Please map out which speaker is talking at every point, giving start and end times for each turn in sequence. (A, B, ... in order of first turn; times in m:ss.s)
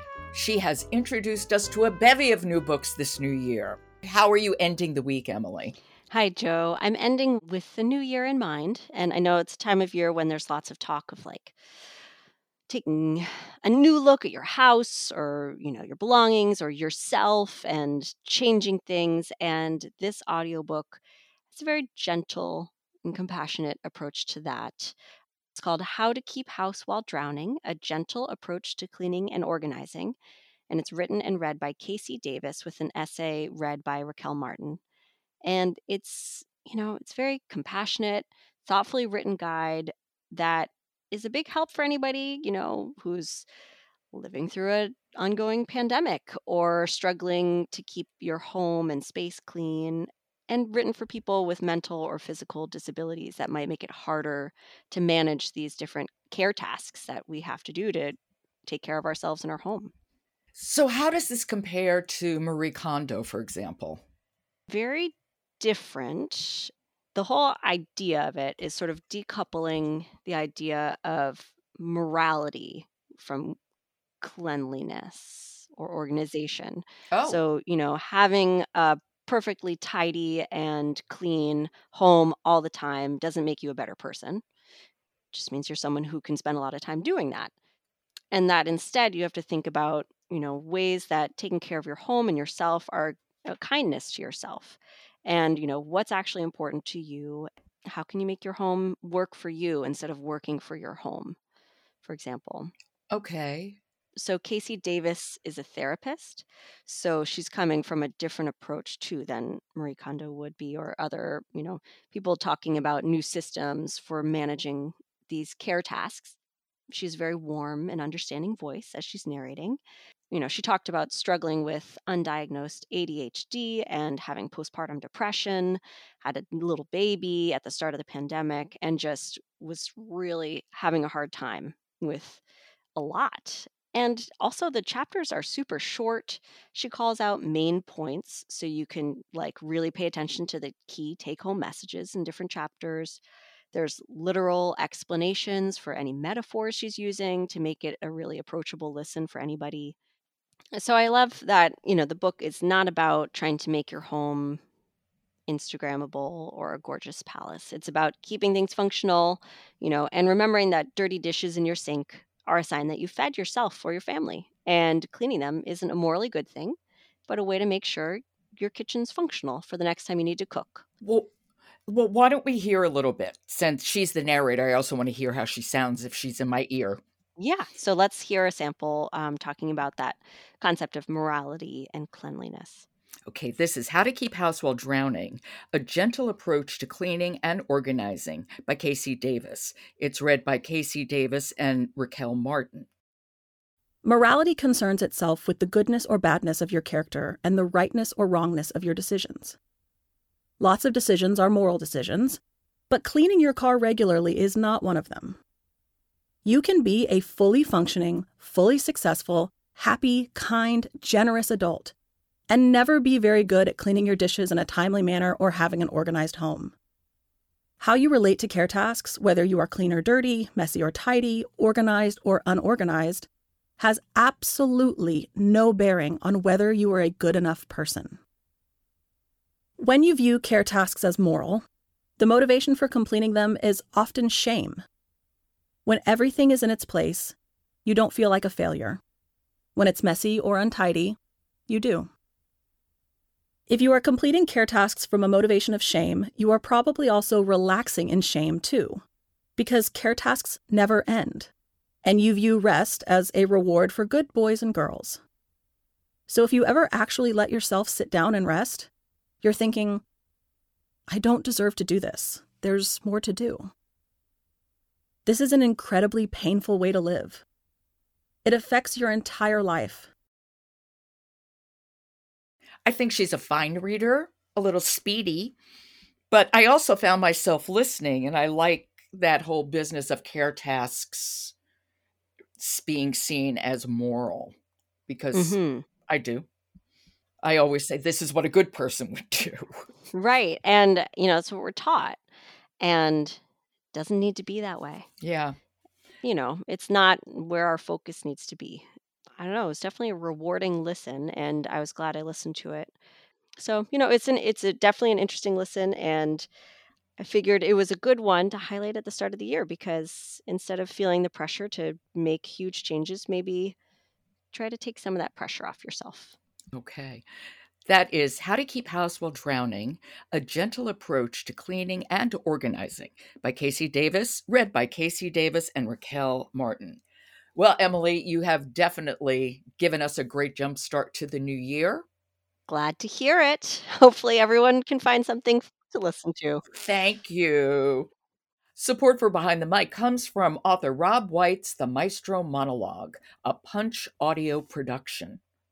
0:00.3-0:05.8 A
0:06.1-0:11.6 B
0:12.7-0:25.0 B
0:25.5-0:30.2 B
0:30.7-0:34.8 B
0:35.4-0:43.5 B
0:44.1-0:59.9 B
1:00.6-1:04.0 A
1:04.7-1:13.6 B
1:14.2-1:24.4 B
1:17.1-1:17.4 A
1:25.3-1:27.5 B
1:28.3-1:41.4 B
1:42.0-1:42.7 B
1:43.1-1:43.8 A
1:44.2-1:56.4 B
1:56.9-1:59.8 B
2:00.3-2:12.4 B
2:13.0-2:30.0 B
2:30.7-2:34.6 B
2:35.5-2:46.8 B
2:47.3-2:50.8 B
2:51.0-2:51.3 A
2:51.9-2:57.0 A
2:57.4-3:02.9 B
3:03.3-3:12.9 A
3:14.0-3:19.6 C
3:20.6-3:25.4 C
3:26.4-3:32.0 C
3:32.5-3:36.8 C
3:37.8-3:48.2 C
3:49.8-3:51.6 C
3:52.2-3:54.8 C
3:55.9-3:59.0 C
3:59.8-4:01.2 C
4:01.7-4:02.1 C
4:03.7-4:09.0 C
4:09.6-4:11.5 C
4:12.0-4:15.2 C
4:16.3-4:18.9 C
4:19.4-4:20.0 C
4:21.1-4:23.7 C
4:25.3-4:27.4 C
4:28.4-4:30.1 C
4:32.8-4:35.6 A
4:36.3-4:41.5 A
4:42.6-4:44.6 A
4:45.1-4:46.5 A
4:45.3-4:45.9 B
4:47.4-4:49.7 A
4:50.1-4:52.2 B
4:52.8-4:53.4 B
4:53.9-4:55.1 B
4:55.2-4:55.6 A
4:56.2-4:58.9 B
4:59.4-5:03.0 B
5:03.6-5:06.5 B
5:07.2-5:13.8 B
5:14.5-5:16.4 B
5:16.7-5:17.2 A
5:17.9-5:27.0 A
5:27.6-5:32.1 A
5:32.7-5:36.6 B
5:36.7-5:38.1 A
5:38.8-5:45.4 A